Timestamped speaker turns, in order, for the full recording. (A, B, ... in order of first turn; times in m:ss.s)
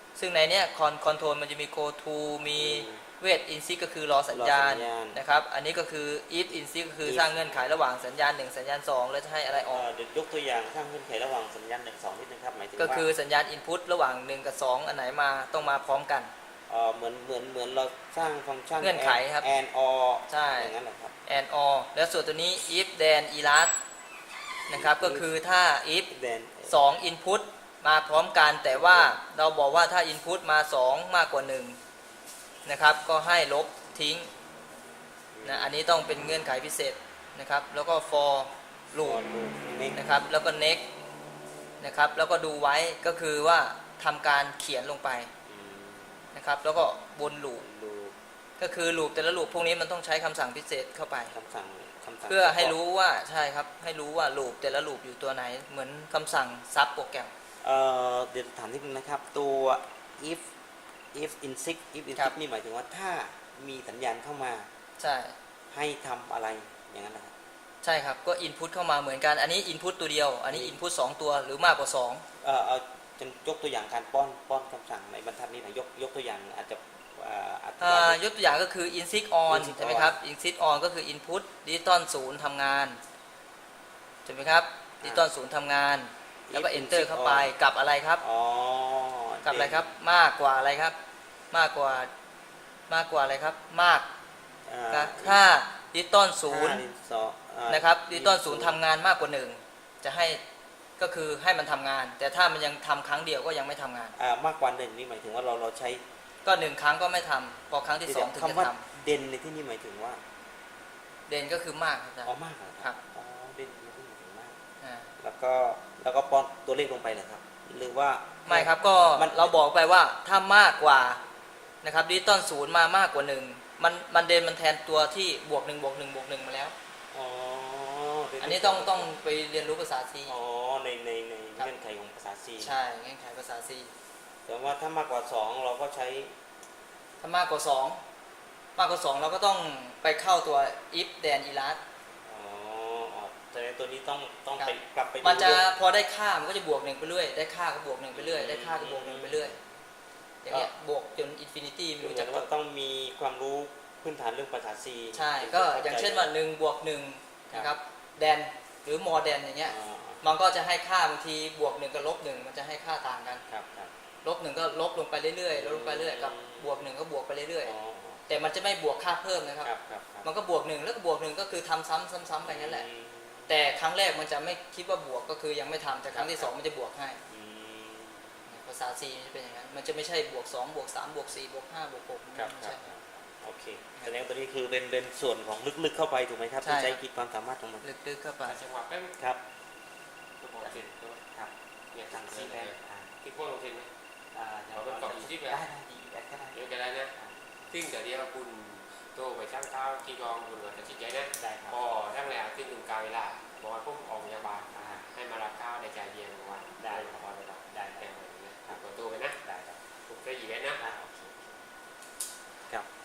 0:00.2-0:09.8 A
0:02.6-0:03.0 B
0:04.3-0:05.2 B
0:07.0-0:07.6 B
0:09.6-0:13.0 B
0:12.8-0:16.3 A
0:16.7-0:21.1 B
0:18.8-0:19.5 A
0:20.3-0:20.7 A
0:21.3-0:23.7 A
0:24.7-0:26.1 A
0:24.7-0:25.3 B
0:26.1-0:26.8 B
0:26.7-0:31.8 A
0:28.7-0:29.2 B
0:32.6-0:34.3 A
0:35.3-0:36.0 B
0:35.4-0:39.2 A
0:39.0-0:40.0 B
0:39.9-0:40.8 A
0:41.8-0:45.3 A
0:45.4-0:46.3 B
0:46.3-0:47.6 A
0:47.6-0:48.1 B
0:48.6-0:51.3 A
0:51.3-0:52.8 B
0:52.3-0:57.3 A
0:57.6-1:00.4 B
1:01.1-1:04.7 B
1:05.0-1:05.3 A
1:05.7-1:07.3 B
1:07.8-1:12.2 A
1:10.5-1:10.8 B
1:12.4-1:18.2 B
1:17.8-1:23.0 A
1:19.5-1:20.2 B
1:24.2-1:28.2 A
1:25.0-1:25.3 B
1:26.5-1:27.5 B
1:28.2-1:29.9 B
1:29.4-1:31.0 A
1:31.5-1:32.1 A
1:32.9-1:34.1 A
1:34.6-1:35.4 B
1:34.9-1:36.8 A
1:36.4-1:38.8 B
1:37.7-1:40.4 A
1:41.0-1:44.1 A
1:44.1-1:46.0 B
1:46.4-1:48.8 A
1:48.1-1:50.2 B
1:51.3-1:53.0 A
1:52.2-1:54.6 B
1:54.8-1:55.1 A
1:55.2-1:59.5 B
1:58.4-2:01.2 A
2:01.8-2:06.7 A
2:07.1-2:09.1 B
2:08.4-2:10.3 A
2:10.3-2:12.7 B
2:12.6-2:13.9 A
2:14.4-2:16.4 B
2:17.2-2:18.0 A
2:18.8-2:21.8 A
2:22.2-2:25.6 B
2:24.6-2:29.5 A
2:28.1-2:29.6 B
2:30.4-2:32.5 A
2:32.0-2:36.3 B
2:35.1-2:43.4 A
2:39.6-2:40.2 B
2:43.5-2:43.9 B
2:44.2-2:47.7 A
2:45.5-2:46.9 B
2:47.6-2:48.3 B
2:48.3-2:49.7 A
2:49.6-2:50.3 B
2:50.2-2:52.8 A
2:52.4-2:53.5 B
2:53.5-2:57.2 A
2:56.1-2:56.5 B
2:57.3-2:58.4 B
2:58.5-3:02.9 A
3:02.3-3:07.8 B
3:06.6-3:07.0 A
3:07.8-3:08.6 A
3:08.4-3:09.1 C
3:10.4-3:11.2 C
3:10.6-3:11.5 B
3:11.9-3:13.9 C
3:12.1-3:13.1 B
3:14.3-3:17.4 B
3:14.7-3:15.6 C
3:16.5-3:17.1 C
3:17.7-3:29.4 C
3:21.4-3:21.8 B
3:24.7-3:25.0 B
3:26.8-3:28.1 B
3:29.4-3:29.8 B
3:30.1-3:30.8 C
3:30.8-3:31.5 B